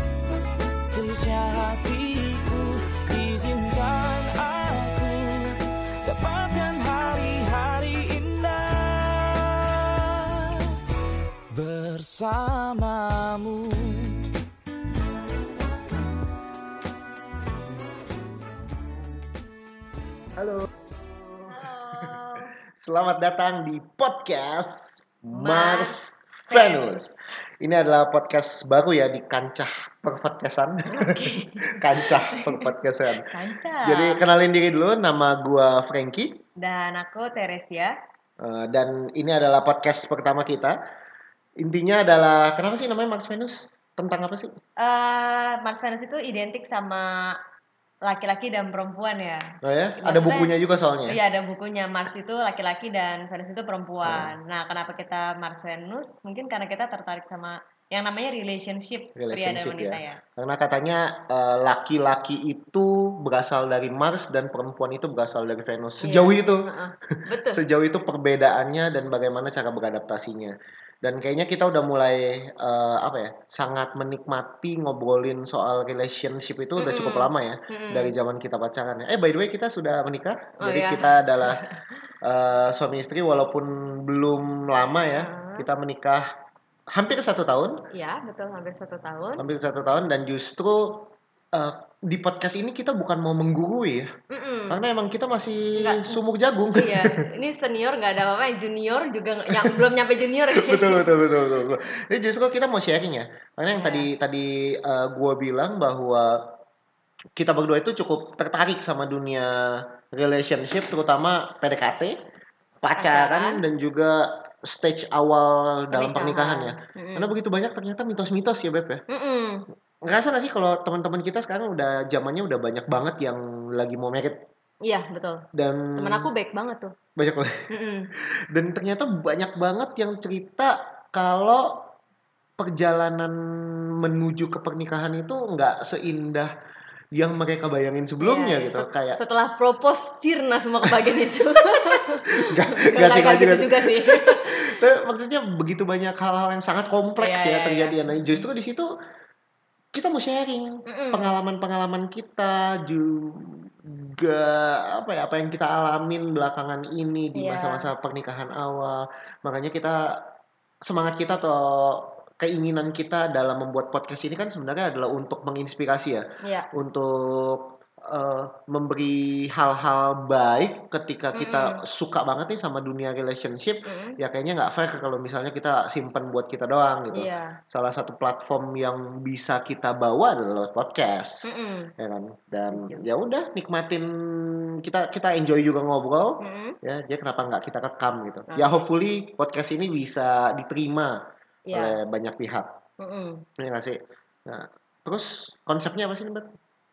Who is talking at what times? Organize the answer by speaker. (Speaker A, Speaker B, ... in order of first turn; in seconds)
Speaker A: 0.9-10.8, 11.5-14.3
Speaker B: 20.4-20.7, 21.3-22.1, 22.8-33.3, 33.8-36.4, 38.4-40.8, 41.6-44.5, 49.6-51.2, 54.0-54.4, 59.2-66.7, 67.3-81.6, 82.2-86.3, 86.9-87.8, 89.4-94.1, 94.7-97.2, 99.5-99.9, 100.5-106.4, 107.4-112.2, 112.8-119.0, 120.0-124.4, 125.5-126.3, 127.2-127.6, 128.5-131.9, 132.6-136.5, 137.1-139.2, 140.9-141.3, 141.9-148.9, 149.9-160.3, 160.9-191.2, 191.7-192.7, 193.6-196.5
Speaker C: 21.5-22.5, 25.3-27.0, 30.9-34.3, 36.6-38.0, 44.8-47.4, 48.0-50.5, 51.1-60.2, 66.0-67.6, 76.8-78.1, 80.6-81.8, 85.1-85.7, 87.9-89.4, 94.3-94.8, 95.8-96.2, 96.8-101.1, 103.7-104.1, 113.0-113.7, 115.9-117.3, 119.1-119.7, 124.8-126.9, 127.7-128.1, 138.2-144.8, 147.2-148.4, 150.9-151.3, 157.3-157.9, 166.4-166.7, 171.3-171.8, 173.8-174.2, 177.1-177.6, 181.4-181.9, 182.7-183.1, 186.4-186.8, 188.5-188.9, 191.7-192.0, 193.0-193.5